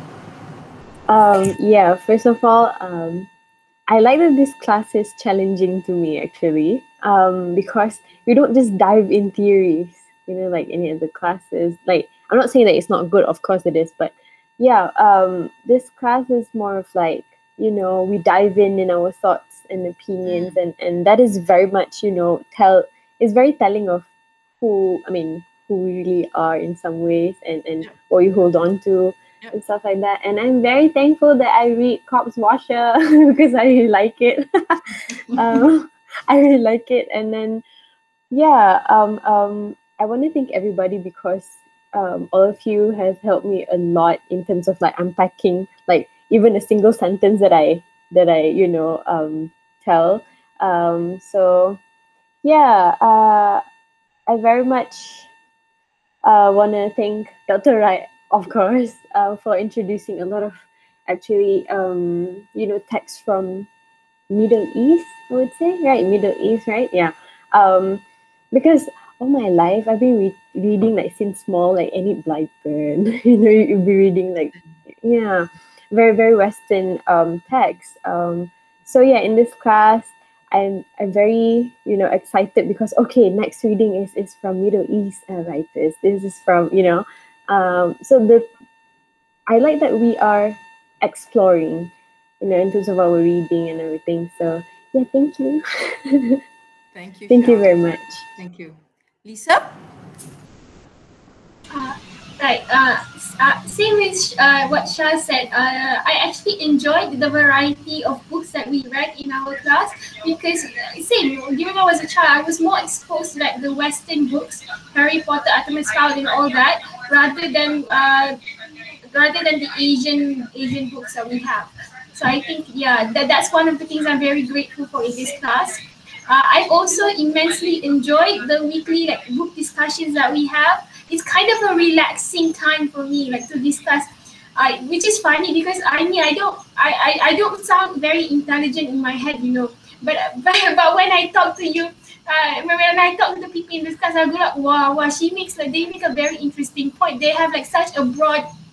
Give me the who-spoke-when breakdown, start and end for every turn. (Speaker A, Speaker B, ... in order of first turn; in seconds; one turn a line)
Speaker A: 1.1-3.3
Speaker A: 3.9-24.1
Speaker B: 20.2-20.6
Speaker A: 24.6-37.6
Speaker A: 38.3-51.8
Speaker A: 52.4-53.6
Speaker A: 54.3-55.3
Speaker A: 56.2-63.7
Speaker A: 64.3-88.5
Speaker A: 89.5-96.4
Speaker B: 96.9-99.8
Speaker A: 97.3-98.0
Speaker C: 101.7-118.3
Speaker C: 119.0-148.5